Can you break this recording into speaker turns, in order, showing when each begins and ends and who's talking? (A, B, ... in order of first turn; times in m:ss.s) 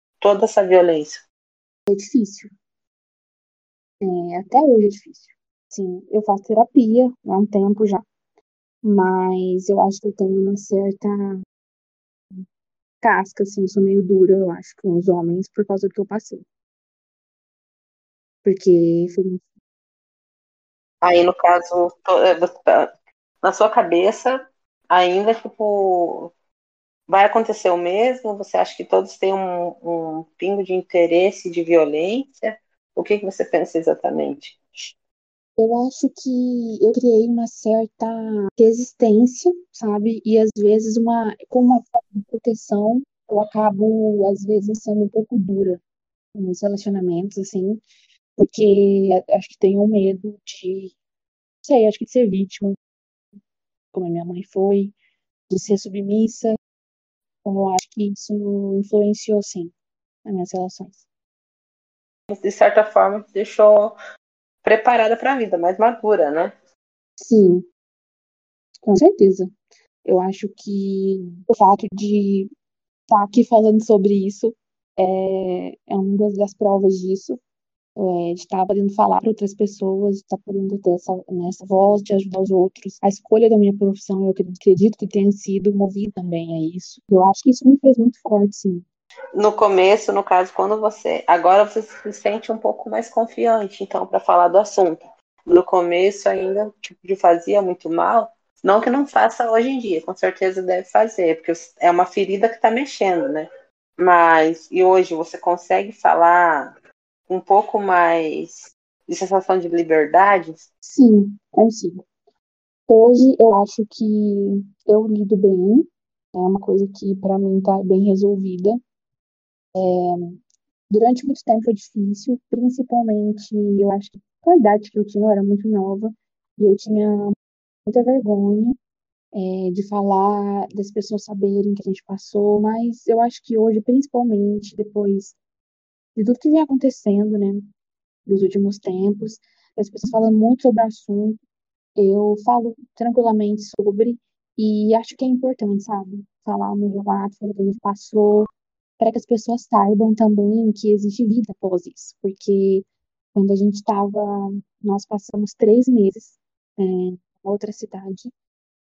0:00.2-0:01.2 A
0:01.9-0:02.5 B
0:04.0-0:08.1 B
0:08.8-0:11.4 B
0:13.0-0:16.4 B
0:18.4-0:19.4 B
0:21.0-0:22.9 A
0:23.4-0:26.3 A
0:27.1-0:34.6 A
0:35.6-0:45.8 B
0:46.4-0:47.8 B
0:48.4-0:51.0 B
0:51.6-0:52.8 B
0:53.9-0:54.9 B
0:55.5-0:56.6 B
0:57.4-0:59.7 B
1:00.2-1:01.0 B
1:02.3-1:04.0 A
1:04.6-1:06.5 A
1:07.2-1:07.7 B
1:08.8-1:09.5 B
1:10.0-1:12.5 B
1:13.1-1:17.4 B
1:18.0-1:28.8 B
1:29.4-1:46.7 A
1:47.3-1:50.7 A
1:50.8-1:52.0 B
1:52.9-1:58.8 B
1:59.8-2:07.4 B
2:07.9-2:08.8 B
2:09.3-2:15.4 B
2:16.2-2:17.7 B
2:18.3-2:21.4 B
2:22.0-2:28.5 B
2:29.0-2:38.3 B